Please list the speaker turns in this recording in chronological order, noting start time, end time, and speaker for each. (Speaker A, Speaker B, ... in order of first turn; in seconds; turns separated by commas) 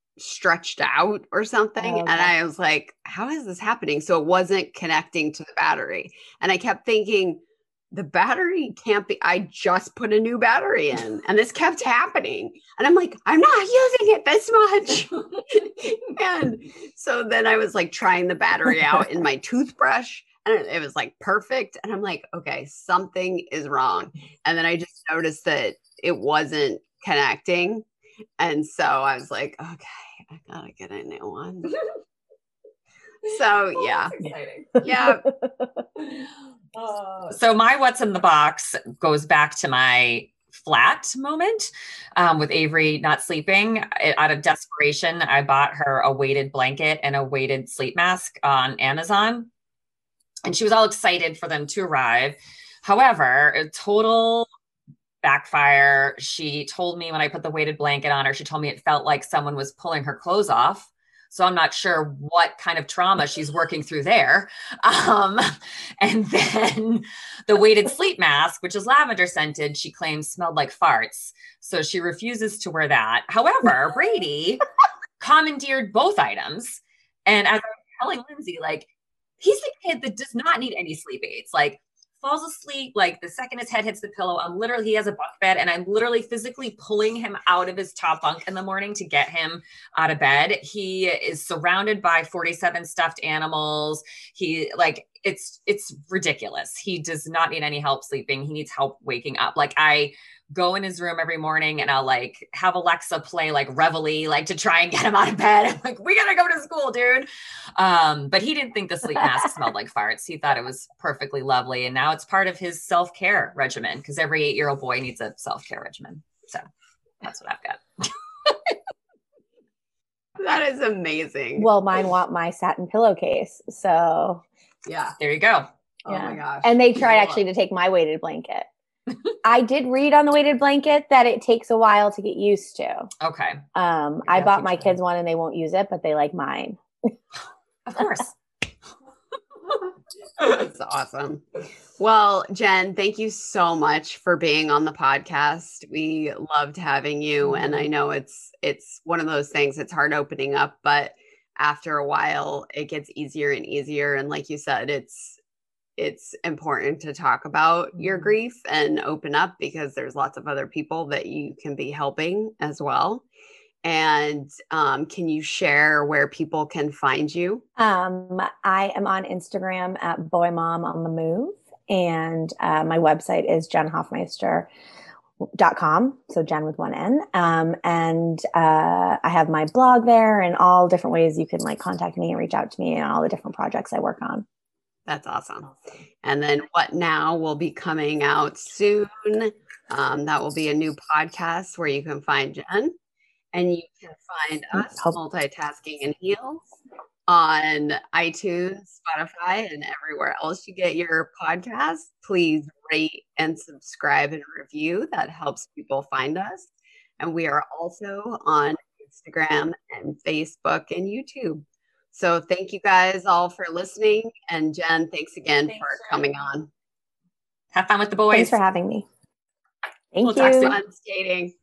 Speaker A: 0.2-27.8, Speaker B: 1.8-2.3, Speaker A: 28.4-31.8, Speaker A: 33.2-34.2, Speaker B: 34.2-35.3, Speaker C: 34.2-34.7, Speaker A: 34.8-35.2, Speaker C: 37.2-49.5, Speaker C: 50.5-54.5, Speaker C: 55.2-65.4, Speaker C: 66.0-74.6, Speaker C: 75.2-78.9, Speaker C: 79.4-116.7, Speaker C: 117.2-118.7, Speaker A: 120.4-121.7, Speaker B: 121.5-124.4, Speaker A: 124.8-125.2, Speaker C: 125.2-125.7, Speaker A: 126.0-127.4, Speaker B: 126.1-128.7, Speaker B: 129.4-133.1, Speaker C: 133.2-133.6, Speaker B: 133.7-136.8, Speaker C: 134.3-134.9, Speaker C: 137.8-138.3, Speaker A: 140.4-141.4, Speaker A: 142.0-155.4, Speaker A: 156.0-163.2, Speaker A: 163.8-167.6, Speaker B: 167.8-174.7, Speaker B: 175.4-184.4, Speaker A: 185.1-185.7, Speaker A: 186.2-192.9, Speaker A: 193.5-196.7, Speaker B: 194.7-195.2, Speaker A: 197.3-216.7, Speaker C: 217.7-218.6, Speaker B: 218.3-219.1, Speaker B: 220.1-220.8, Speaker C: 220.2-220.8, Speaker A: 220.4-221.5